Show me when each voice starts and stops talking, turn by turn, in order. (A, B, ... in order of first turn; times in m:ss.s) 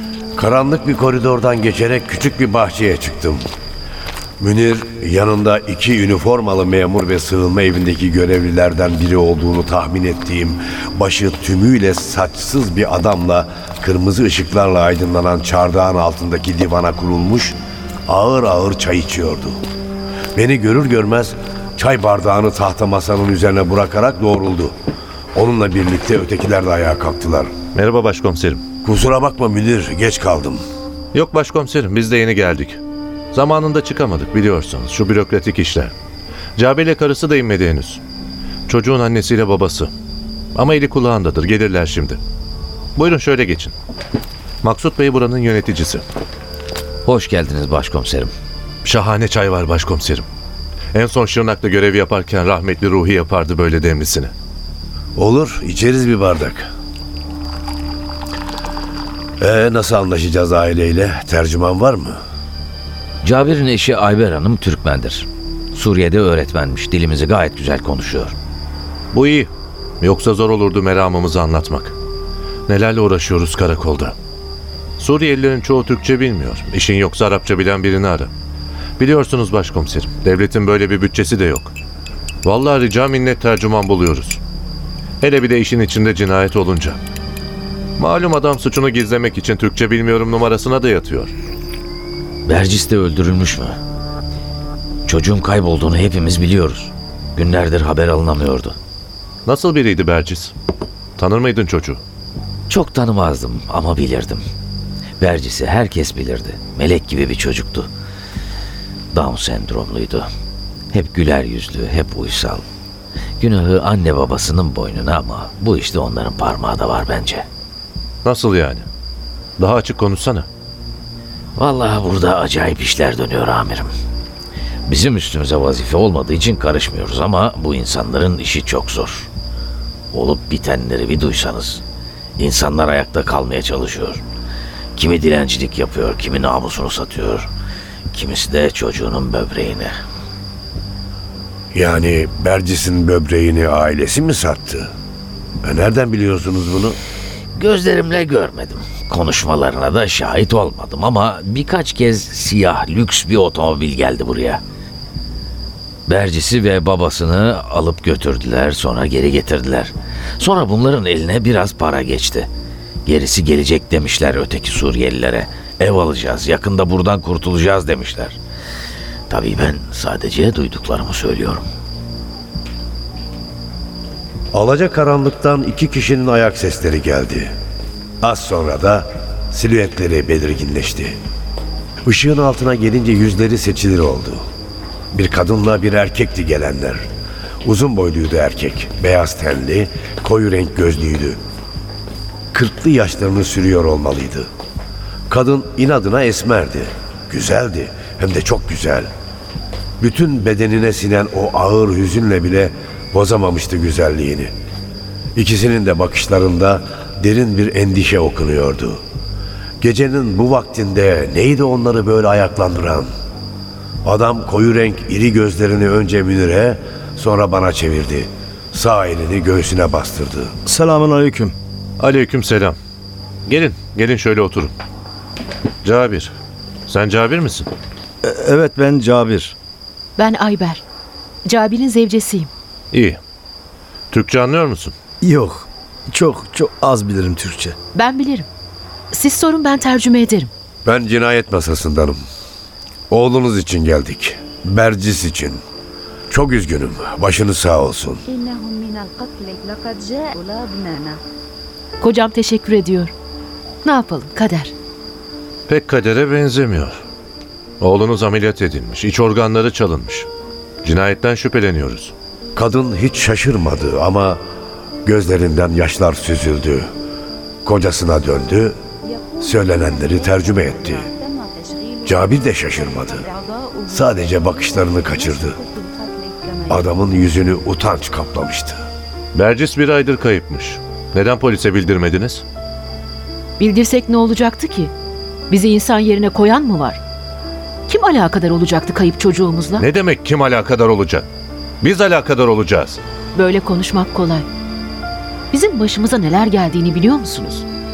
0:00.4-0:03.4 A
0:04.4-0:19.6 A
0:20.3-0:24.7 A
0:25.3-0:27.5 A
0:27.7-0:28.6 B
0:28.8-0:30.6 A
0:31.1-0:32.8 B
0:33.3-0:35.9 B
0:36.6-0:38.0 B
0:38.7-0:39.9 B
0:40.5-0:42.2 B
0:43.0-0:43.7 B
0:44.6-0:46.0 B
0:47.0-0:48.3 C
0:48.8-0:50.3 B
0:50.9-0:54.3 B
0:55.1-0:56.7 A
0:59.4-1:02.2 A
1:03.2-1:08.3 C
1:09.1-1:09.5 B
1:10.0-1:11.9 B
1:12.7-1:14.2 B
1:15.0-1:18.3 B
1:19.0-1:21.7 B
1:22.4-1:24.4 B
1:25.2-1:27.0 B
1:28.0-1:31.3 B
1:32.5-1:33.8 C
1:35.1-1:38.8 C
1:39.4-1:40.5 B
1:41.2-1:42.0 B
1:42.7-1:44.4 C
1:45.2-1:47.9 C
1:49.1-1:50.3 C
1:50.9-1:52.6 C
1:53.4-1:57.4 C
1:58.2-1:58.9 B
1:59.6-2:00.5 B
2:01.6-2:03.9 C
2:04.9-2:09.3 C
2:10.1-2:11.8 C
2:12.4-2:14.2 C
2:14.9-2:17.5 C
2:18.1-2:19.9 C
2:21.7-2:24.9 A
2:25.6-2:27.0 A
2:27.6-2:34.6 C
2:36.1-2:42.5 C
2:43.0-2:48.4 C
2:49.3-2:51.7 C
2:54.5-2:57.5 A
2:58.2-3:01.2 A
3:02.0-3:04.4 A
3:05.1-3:07.0 A
3:07.6-3:11.4 A
3:12.5-3:14.5 A
3:15.3-3:19.1 A
3:20.0-3:24.5 A
3:25.4-3:29.0 A
3:29.8-3:33.1 A
3:34.0-3:40.5 A
3:40.6-3:41.5 D
3:42.0-3:42.8 B
3:43.5-3:44.7 B
3:45.8-3:46.3 B
3:46.9-3:47.7 B
3:48.2-3:49.5 D
3:50.2-3:50.8 E
3:51.4-3:52.5 E
3:52.9-3:53.2 B
3:54.1-3:54.9 B
3:55.2-3:57.8 D
3:57.9-3:58.5 E
3:59.1-4:00.5 E
4:00.8-4:02.2 A
4:03.1-4:05.6 A
4:06.3-4:08.2 A
4:12.0-4:13.1 E
4:13.8-4:14.7 E
4:15.7-4:17.0 B
4:17.8-4:20.3 B
4:20.8-4:22.1 B
4:22.5-4:24.4 A
4:25.0-4:26.9 A
4:27.6-4:28.8 A
4:29.4-4:31.1 A
4:32.0-4:33.3 A
4:33.9-4:35.6 A
4:36.7-4:38.8 A
4:39.3-4:42.4 B
4:43.6-4:44.9 E
4:45.5-4:47.0 E
4:47.9-4:49.8 E
4:49.8-4:51.3 B
4:51.8-4:53.0 B
4:53.3-4:54.5 E
4:55.5-4:57.6 E